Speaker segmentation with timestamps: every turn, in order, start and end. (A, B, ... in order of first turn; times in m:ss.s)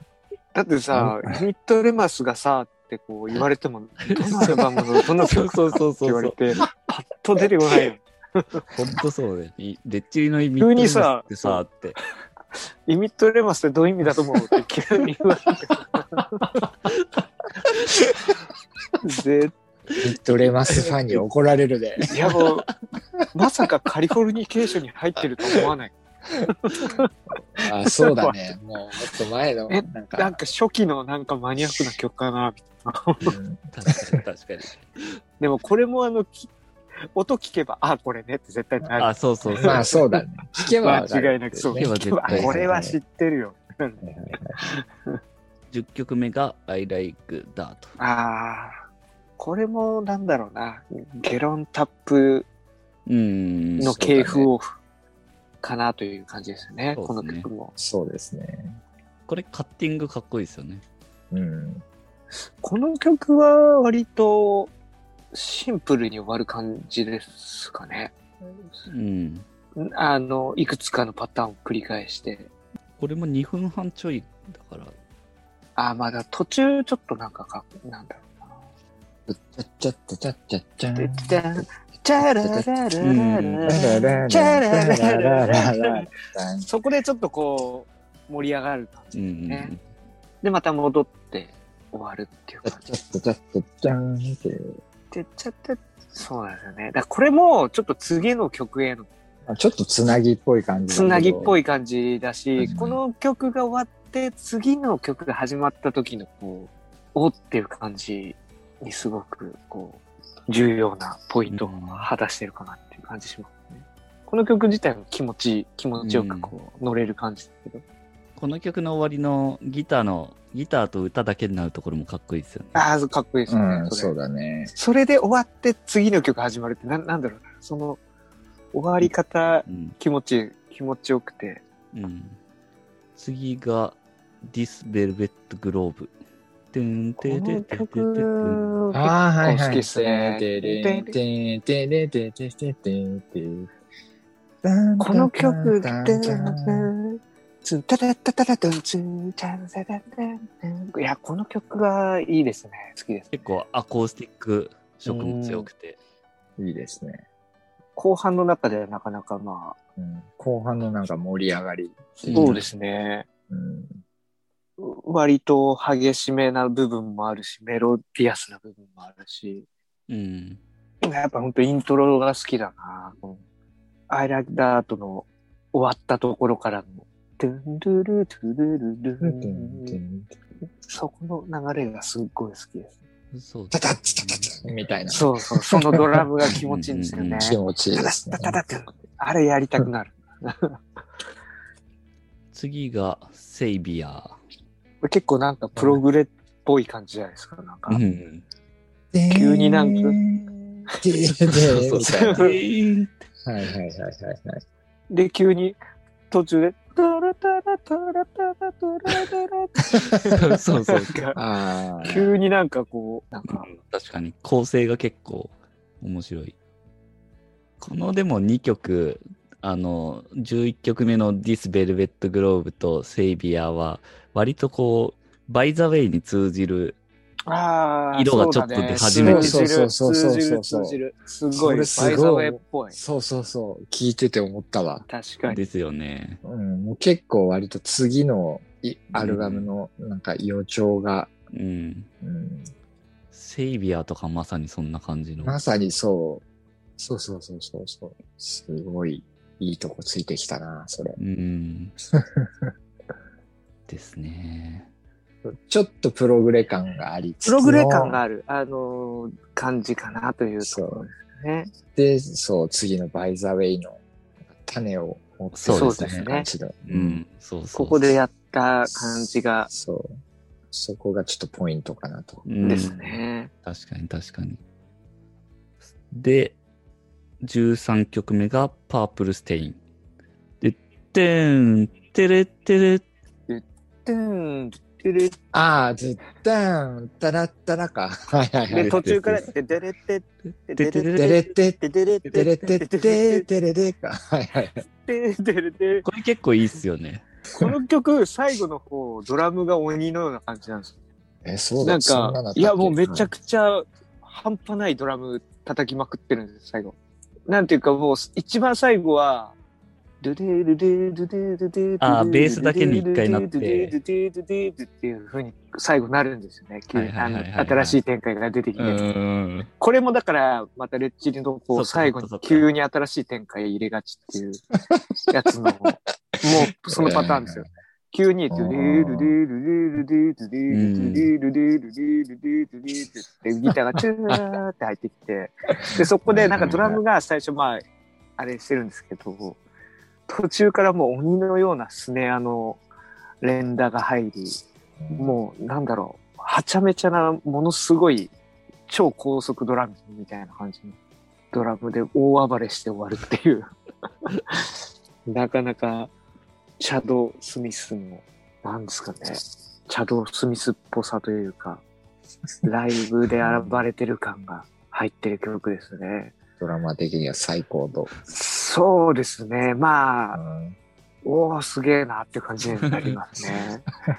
0:00.5-0:08.6 A
0:00.9-0:01.2 B
0:04.1-0:04.6 C
0:05.2-0:06.5 C
0:08.7-0:12.0 C
0:10.6-0:11.6 A
0:12.9-0:16.5 A
0:17.6-0:18.1 C
0:19.0-0:19.5 A
0:20.0-0:22.1 B
0:20.8-0:21.2 A
0:22.1-0:22.7 A
0:22.3-0:22.7 C
0:23.3-0:27.1 A
0:27.6-0:30.5 B
0:28.0-0:28.4 A
0:29.7-0:33.4 A
0:33.3-0:33.7 B
0:33.7-0:35.2 C
0:35.4-0:36.5 A
0:37.2-0:40.2 A
0:39.0-0:39.9 C
0:39.4-0:43.0 B
0:40.8-0:44.0 A
0:41.7-0:42.7 C
0:44.0-0:44.6 B
0:44.6-0:45.2 A
0:45.7-0:47.9 C
0:48.0-0:48.8 A
0:49.4-0:52.5 A
0:53.1-0:54.0 C
0:53.8-0:54.7 A
0:53.8-0:54.5 B
0:55.6-0:57.7 A
0:56.9-0:57.5 C
0:57.8-0:58.8 B
0:59.3-1:00.8 C
1:01.3-1:01.8 B
1:02.6-1:04.7 A
1:05.3-1:08.9 A
1:08.9-1:09.5 C
1:09.8-1:12.5 A
1:13.0-1:15.0 C
1:15.8-1:18.6 A
1:19.3-1:21.6 B
1:21.0-1:26.1 A
1:22.2-1:22.7 B
1:23.0-1:23.8 C
1:23.7-1:26.7 B
1:26.6-1:29.7 A
1:29.1-1:29.8 C
1:30.4-1:32.8 A
1:32.6-1:34.8 B
1:35.1-1:39.1 A
1:39.5-1:41.6 B
1:40.9-1:57.8 A
1:42.6-1:43.0 B
1:51.5-1:52.1 C
1:56.0-1:56.5 C
1:58.4-2:02.9 C
2:02.8-2:04.2 A
2:03.5-2:04.7 B
2:04.7-2:08.0 A
2:08.7-2:11.6 A
2:09.7-2:10.0 C
2:11.9-2:12.4 C
2:13.2-2:16.1 C
2:16.7-2:18.8 C
2:17.2-2:21.2 A
2:18.9-2:23.7 B
2:24.6-2:26.9 B
2:25.0-2:33.5 A
2:33.3-2:36.0 C
2:35.0-2:35.7 A
2:36.6-2:37.2 B
2:38.0-2:39.8 A
2:40.0-2:42.6 B
2:42.3-2:42.6 C
2:42.3-2:43.3 A
2:43.5-2:44.0 B
2:44.8-2:49.7 A
2:50.1-2:50.6 C
2:51.0-2:53.4 A
2:54.1-3:00.0 A
2:59.2-3:00.3 B
3:00.8-3:03.0 A
3:03.3-3:04.5 C
3:03.7-3:06.2 B
3:05.1-3:10.8 A
3:06.5-3:07.5 C
3:07.4-3:08.6 B
3:12.5-3:14.4 C
3:15.0-3:18.0 A
3:15.8-3:16.0 B
3:17.9-3:18.4 C
3:19.1-3:22.5 B
3:19.3-3:20.2 A
3:21.5-3:23.1 C
3:22.0-3:22.6 A
3:23.5-3:24.6 B
3:25.1-3:25.8 A
3:26.3-3:31.4 A
3:30.3-3:31.3 C
3:31.3-3:32.3 B
3:32.0-3:33.7 A
3:33.5-3:36.6 C
3:37.8-3:47.0 C
3:47.5-3:53.0 A
3:48.1-3:49.7 C
3:49.0-3:51.0 B
3:51.5-3:55.1 B
3:55.1-3:55.6 A
3:55.4-3:56.4 C
3:56.4-4:01.3 B
3:59.2-3:59.7 C
4:01.5-4:02.1 C
4:02.2-4:02.7 B
4:03.3-4:05.6 C
4:05.4-4:06.4 B
4:07.0-4:11.2 B
4:11.2-4:12.0 C
4:12.4-4:12.7 B
4:13.9-4:14.9 C
4:15.4-4:18.2 B
4:17.4-4:21.8 A
4:20.6-4:21.1 B
4:22.0-4:24.0 B
4:24.6-4:27.2 B
4:25.5-4:26.3 C
4:25.7-4:26.5 A
4:26.9-4:28.2 C
4:27.7-4:29.7 A
4:29.7-4:30.2 B
4:30.7-4:32.8 B
4:32.5-4:34.6 C
4:32.6-4:33.5 A
4:36.1-4:36.6 C
4:37.4-4:39.8 C
4:40.6-4:43.1 C
4:43.5-4:45.4 A
4:45.5-4:49.5 B
4:48.7-4:53.5 A
4:48.8-4:49.5 C
4:50.8-4:51.3 C
4:51.2-4:54.8 B
4:55.0-4:56.0 A
4:56.0-4:57.2 C
4:57.5-5:00.9 A
5:01.4-5:03.3 B
5:01.8-5:07.0 A
5:07.5-5:09.5 A
5:10.2-5:19.0 A
5:12.0-5:14.0 C
5:16.9-5:18.0 C
5:18.8-5:19.7 C
5:19.8-5:24.7 A
5:21.7-5:22.7 C
5:25.3-5:37.8 A
5:26.8-5:27.7 B
5:28.5-5:29.4 B
5:30.7-5:31.3 C
5:34.0-5:34.6 B
5:35.8-5:37.0 B
5:38.4-5:39.6 A
5:40.3-5:42.8 A
5:43.4-5:44.6 A
5:45.0-5:45.4 B
5:45.1-5:48.3 A
5:48.9-5:51.0 A
5:51.5-5:53.7 A
5:54.3-5:54.6 A
5:55.2-5:56.1 A
5:56.8-6:01.8 A
6:02.6-6:06.4 A
6:03.4-6:03.9 B
6:06.6-6:08.1 B
6:08.2-6:10.4 A
6:10.3-6:10.8 B
6:11.2-6:13.9 A
6:12.9-6:13.2 C
6:13.4-6:13.6 B